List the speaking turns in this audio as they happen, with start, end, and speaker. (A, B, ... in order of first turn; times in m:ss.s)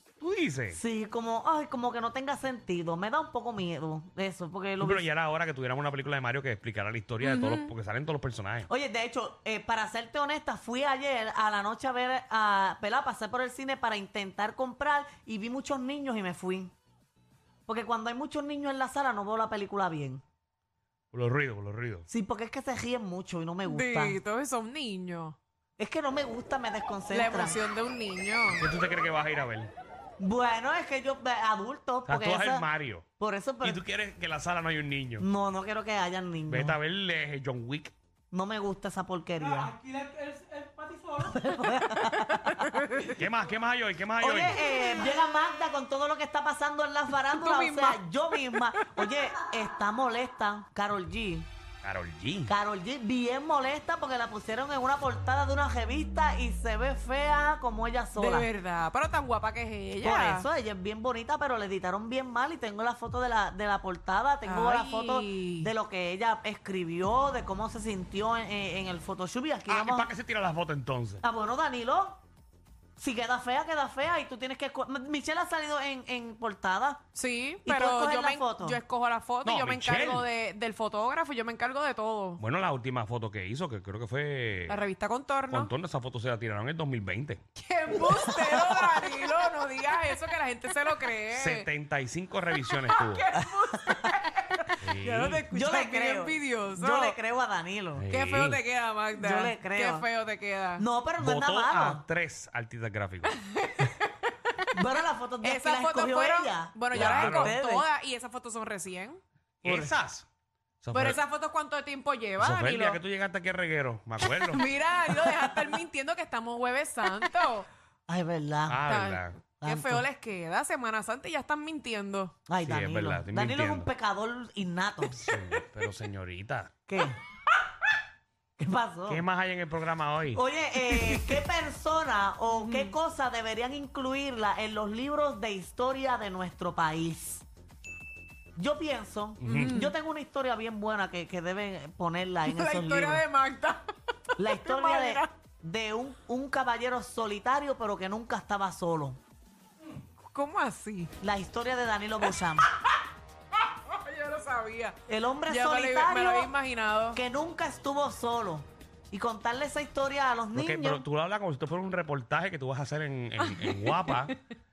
0:00.2-0:00.8 A
0:00.7-0:05.1 B
0:04.8-0:08.7 A
0:07.2-0:07.7 C
0:08.7-0:16.7 B
0:17.7-0:20.2 B
0:21.1-0:22.1 A
0:22.1-0:24.2 B
0:23.6-0:25.4 C
0:25.8-0:27.6 B
0:27.1-0:28.7 C
0:28.6-0:29.7 A
0:30.2-0:32.6 B
0:32.1-0:33.0 A
0:33.2-0:33.8 B
0:33.6-0:35.2 A
0:35.2-0:36.8 B
0:36.5-0:37.9 A
0:38.3-0:39.8 B
0:40.2-0:40.7 C
0:41.1-0:42.7 B
0:42.0-0:43.1 C
0:43.1-0:44.6 A
0:44.2-0:51.5 B
0:44.7-0:45.0 C
0:47.3-0:48.0 C
0:48.5-0:49.2 C
0:51.8-0:52.5 A
0:52.5-0:58.5 B
0:58.2-1:00.5 C
1:00.0-1:10.1 B
1:04.4-1:05.7 C
1:09.7-1:11.2 A
1:11.2-1:12.2 B
1:13.0-1:17.0 B
1:17.1-1:22.4 C
1:17.6-1:18.8 B
1:19.4-1:20.3 A
1:22.4-1:24.8 A
1:24.7-1:25.7 C
1:25.5-1:27.4 A
1:27.6-1:31.7 C
1:28.1-1:28.9 B
1:31.3-1:33.2 A
1:32.7-1:37.2 C
1:33.4-1:34.1 B
1:34.8-1:35.4 A
1:35.5-1:38.0 B
1:37.9-1:38.6 A
1:38.1-1:40.8 C
1:39.1-1:40.1 B
1:40.8-1:42.0 B
1:41.2-1:43.4 A
1:43.2-1:44.7 C
1:44.7-1:47.8 B
1:45.4-1:49.2 C
1:46.9-1:47.6 A
1:49.6-1:50.2 A
1:49.6-1:49.9 B
1:50.8-1:51.2 A
1:50.9-1:53.0 C
1:52.4-1:54.6 A
1:54.2-1:57.7 C
1:58.1-1:58.8 B
1:58.7-1:59.4 A
1:58.8-2:02.3 C
1:59.6-2:00.0 B
2:02.5-2:05.3 B
2:02.6-2:03.9 A
2:05.2-2:06.7 A
2:06.9-2:07.2 B
2:08.6-2:09.2 B
2:09.1-2:10.4 A
2:10.3-2:17.4 B
2:11.0-2:11.4 C
2:12.5-2:12.9 C
2:18.6-2:23.2 B
2:19.4-2:19.8 A
2:19.4-2:19.9 C
2:22.4-2:25.3 C
2:24.4-2:29.2 B
2:30.2-2:31.1 C
2:31.2-2:32.7 B
2:33.7-2:37.2 C
2:35.1-2:36.5 B
2:37.1-2:41.0 B
2:40.5-2:44.4 A
2:43.5-2:44.3 C